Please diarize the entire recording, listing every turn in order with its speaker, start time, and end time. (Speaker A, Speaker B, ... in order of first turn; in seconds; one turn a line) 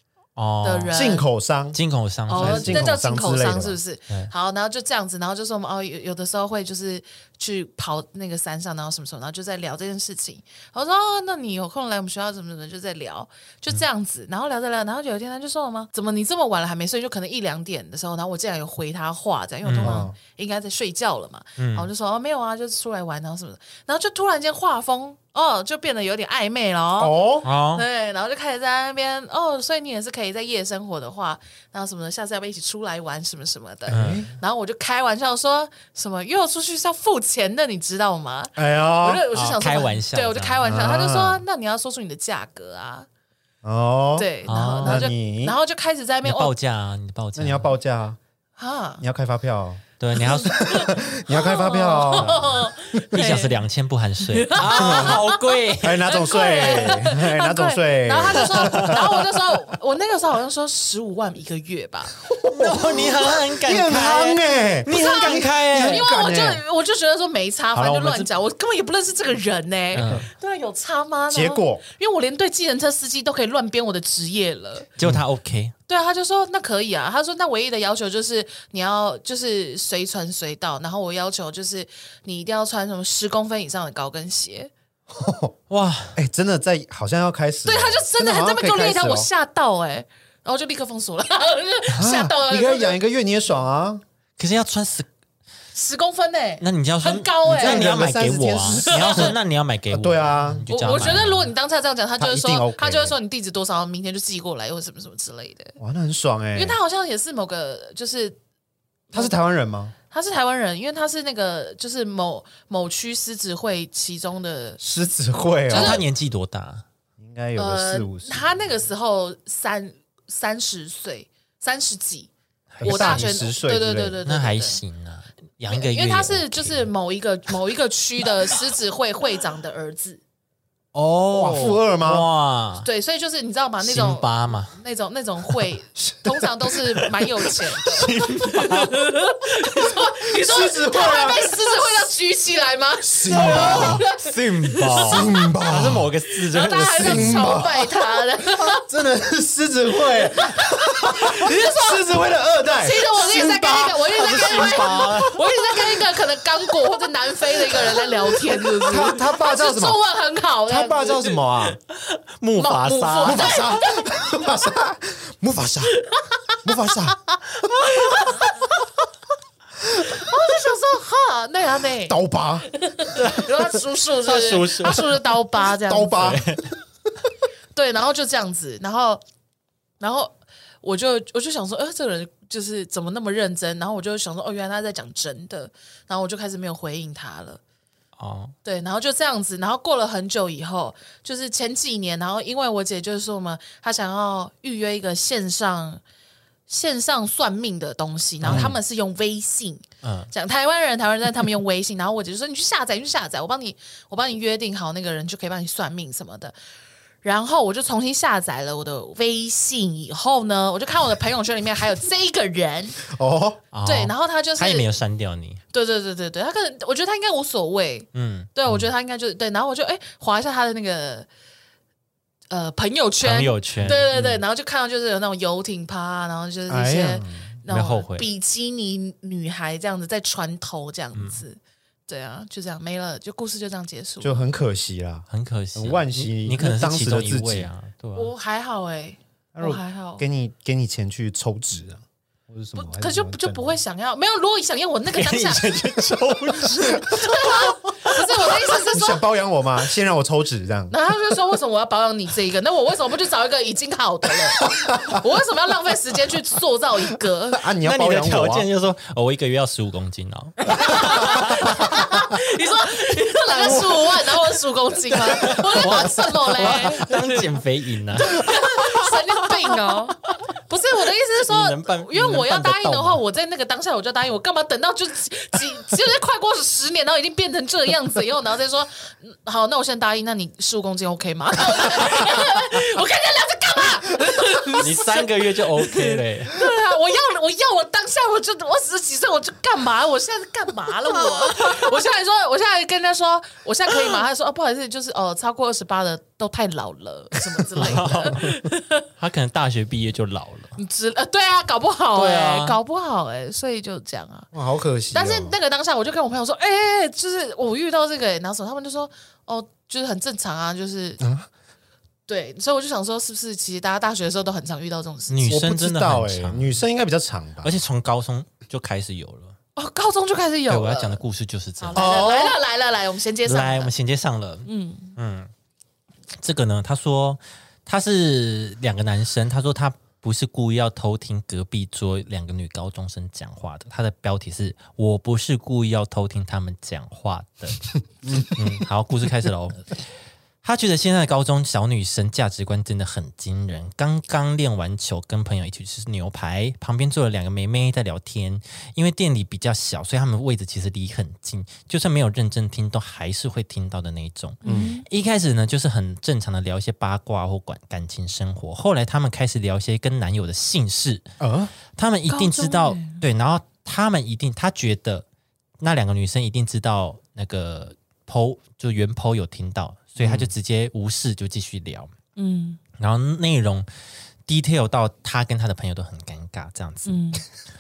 Speaker A: 0.4-0.9
Speaker B: 0.6-1.3
Speaker C: 0.9-1.8
Speaker A: 1.7-2.9
Speaker B: 2.3-27.2
Speaker C: 2.3-3.8
Speaker A: 19.6-20.1
Speaker C: 19.8-20.1
Speaker A: 21.6-21.9
Speaker C: 27.0-27.5
Speaker A: 27.4-27.9
Speaker B: 27.7-43.1
Speaker A: 33.9-34.3
Speaker C: 33.9-34.3
Speaker C: 38.6-39.3
Speaker A: 39.3-40.6
Speaker C: 40.6-41.4
Speaker C: 43.6-44.3
Speaker B: 44.2-46.5
Speaker A: 44.5-45.1
Speaker C: 44.8-45.6
Speaker A: 46.2-47.7
Speaker C: 47.4-48.2
Speaker B: 48.6-49.0
Speaker C: 49.0-52.5
Speaker A: 50.0-50.9
Speaker B: 50.2-53.6
Speaker A: 52.1-56.2
Speaker B: 54.4-62.2
Speaker C: 54.6-55.2
Speaker C: 55.8-59.1
Speaker A: 58.5-59.1
Speaker C: 62.2-66.6
Speaker A: 62.5-66.1
Speaker B: 64.9-74.9
Speaker A: 67.7-68.3
Speaker A: 69.9-70.3
Speaker C: 71.3-71.8
Speaker A: 75.0-75.7
Speaker B: 75.9-84.7
Speaker C: 85.1-85.5
Speaker A: 85.7-86.2
Speaker C: 86.2-89.3
Speaker B: 87.7-93.0
Speaker C: 91.9-94.0
Speaker A: 94.4-95.1
Speaker B: 95.7-98.0
Speaker A: 96.6-101.5
Speaker C: 97.5-99.4
Speaker B: 98.9-99.4
Speaker C: 99.9-100.7
Speaker B: 100.7-105.8
Speaker C: 102.2-103.2
Speaker C: 105.8-106.8
Speaker B: 106.5-108.4
Speaker C: 109.1-109.9
Speaker B: 110.1-114.8
Speaker C: 114.8-116.0
Speaker B: 115.7-116.0
Speaker A: 115.7-116.8
Speaker C: 117.2-118.5
Speaker B: 117.6-122.3
Speaker A: 122.7-123.3
Speaker C: 122.8-124.2
Speaker B: 122.8-124.8
Speaker A: 124.2-126.9
Speaker B: 125.7-130.2
Speaker A: 130.9-132.9
Speaker C: 131.3-132.3
Speaker B: 132.8-145.5
Speaker A: 133.8-134.8
Speaker C: 136.0-136.9
Speaker A: 137.8-139.2
Speaker C: 139.8-141.7
Speaker C: 143.0-144.1
Speaker A: 143.3-147.7
Speaker C: 144.8-146.1
Speaker B: 146.5-148.8
Speaker C: 147.0-155.2
Speaker B: 150.2-152.1
Speaker B: 152.7-161.4
Speaker A: 154.1-155.5
Speaker C: 157.7-160.0
Speaker C: 160.7-161.8
Speaker A: 162.1-163.6
Speaker B: 162.6-164.1
Speaker C: 163.2-166.0
Speaker C: 166.6-168.1
Speaker B: 167.8-168.7
Speaker C: 170.0-170.3
Speaker B: 170.1-172.2
Speaker C: 172.1-172.7
Speaker B: 172.7-176.4
Speaker A: 173.1-173.5
Speaker A: 174.2-175.2
Speaker C: 175.8-176.6
Speaker A: 176.2-176.7
Speaker B: 177.8-179.2
Speaker B: 180.0-187.6
Speaker A: 188.2-188.6
Speaker B: 188.6-196.0
Speaker B: 196.7-206.6
Speaker A: 198.4-198.8
Speaker C: 198.4-198.8
Speaker A: 200.0-200.3
Speaker B: 207.2-213.1
Speaker C: 213.1-213.6
Speaker A: 213.7-215.6
Speaker B: 213.8-214.9
Speaker B: 215.7-221.3
Speaker A: 218.1-218.7
Speaker B: 222.5-231.6
Speaker A: 223.2-224.1
Speaker C: 224.1-224.4
Speaker C: 226.7-227.6
Speaker A: 227.7-228.3
Speaker A: 231.1-231.4
Speaker B: 232.1-234.5
Speaker C: 234.2-237.7
Speaker A: 235.3-238.3
Speaker B: 238.2-240.2
Speaker C: 239.6-243.8
Speaker B: 242.8-246.0
Speaker A: 245.1-248.8
Speaker B: 247.1-249.2
Speaker C: 248.9-251.0
Speaker B: 250.9-257.6
Speaker C: 254.8-255.2
Speaker C: 257.5-258.7
Speaker A: 257.8-262.1
Speaker B: 260.8-267.4
Speaker C: 260.9-262.0
Speaker A: 263.5-264.2
Speaker A: 265.1-269.0
Speaker C: 265.4-267.0
Speaker B: 268.2-299.1
Speaker C: 268.3-268.9
Speaker A: 271.4-273.2
Speaker A: 284.8-286.6
Speaker A: 297.8-298.5
Speaker A: 299.2-300.8
Speaker B: 300.8-304.5
Speaker A: 302.1-302.8
Speaker C: 304.5-305.6
Speaker B: 305.1-311.2
Speaker C: 311.2-311.5
Speaker B: 312.3-315.5
Speaker A: 315.3-316.8
Speaker C: 315.5-317.7
Speaker A: 317.6-319.6
Speaker B: 319.8-321.2
Speaker A: 320.7-322.3
Speaker B: 321.8-323.9
Speaker C: 321.9-322.6
Speaker A: 323.5-325.5
Speaker B: 324.7-325.1
Speaker A: 326.4-340.1
Speaker C: 338.3-338.6
Speaker A: 340.6-361.3
Speaker B: 354.6-355.1
Speaker C: 354.6-355.0
Speaker C: 361.4-361.7
Speaker A: 361.9-365.2
Speaker B: 362.3-363.2
Speaker A: 365.8-372.1
Speaker C: 370.2-370.5
Speaker B: 372.4-372.8
Speaker A: 373.0-373.9
Speaker A: 374.5-377.2
Speaker B: 377.1-377.4